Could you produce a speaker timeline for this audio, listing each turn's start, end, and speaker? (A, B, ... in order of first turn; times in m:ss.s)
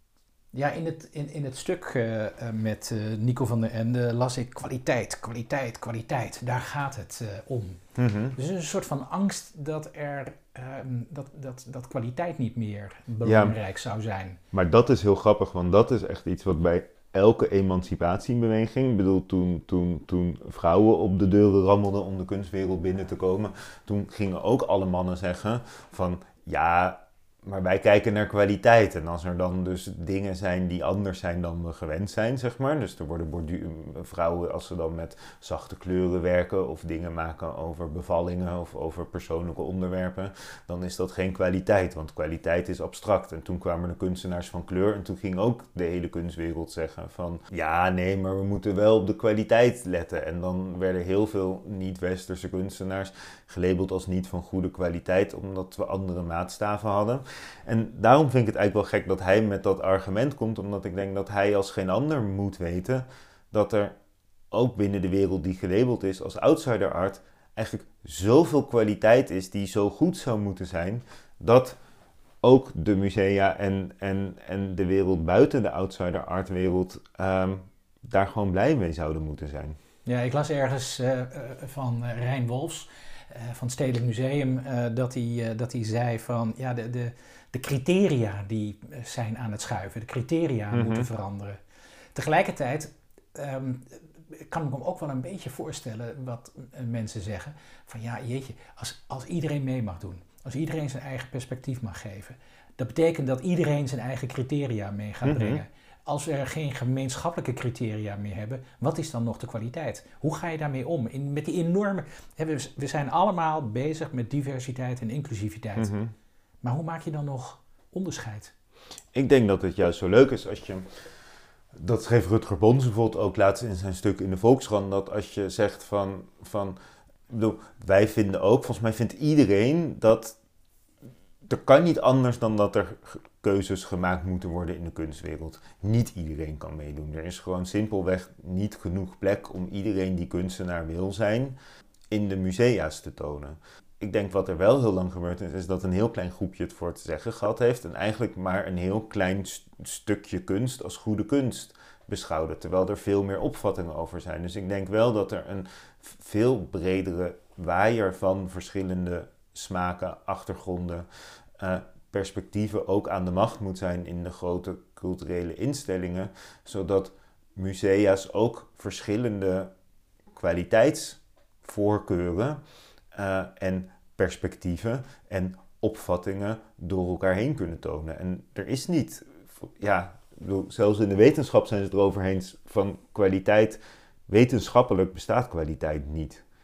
0:00.5-0:14.4 A
0:08.0-0:08.4 B
0:13.2-0:13.6 B
0:14.5-1:04.0 B
1:04.5-1:11.8 B
1:12.4-1:19.8 B
1:20.0-1:31.6 A
1:30.7-1:31.1 B
1:32.2-1:55.9 A
1:45.2-1:45.6 B
1:55.8-1:56.1 B
1:56.6-1:58.5 A
1:59.1-2:00.9 B
2:01.7-2:06.8 B
2:07.3-2:10.4 B
2:11.4-2:21.6 B
2:22.1-2:41.1 B
2:41.6-2:49.7 B
2:50.3-2:52.6 B
2:53.1-3:06.4 B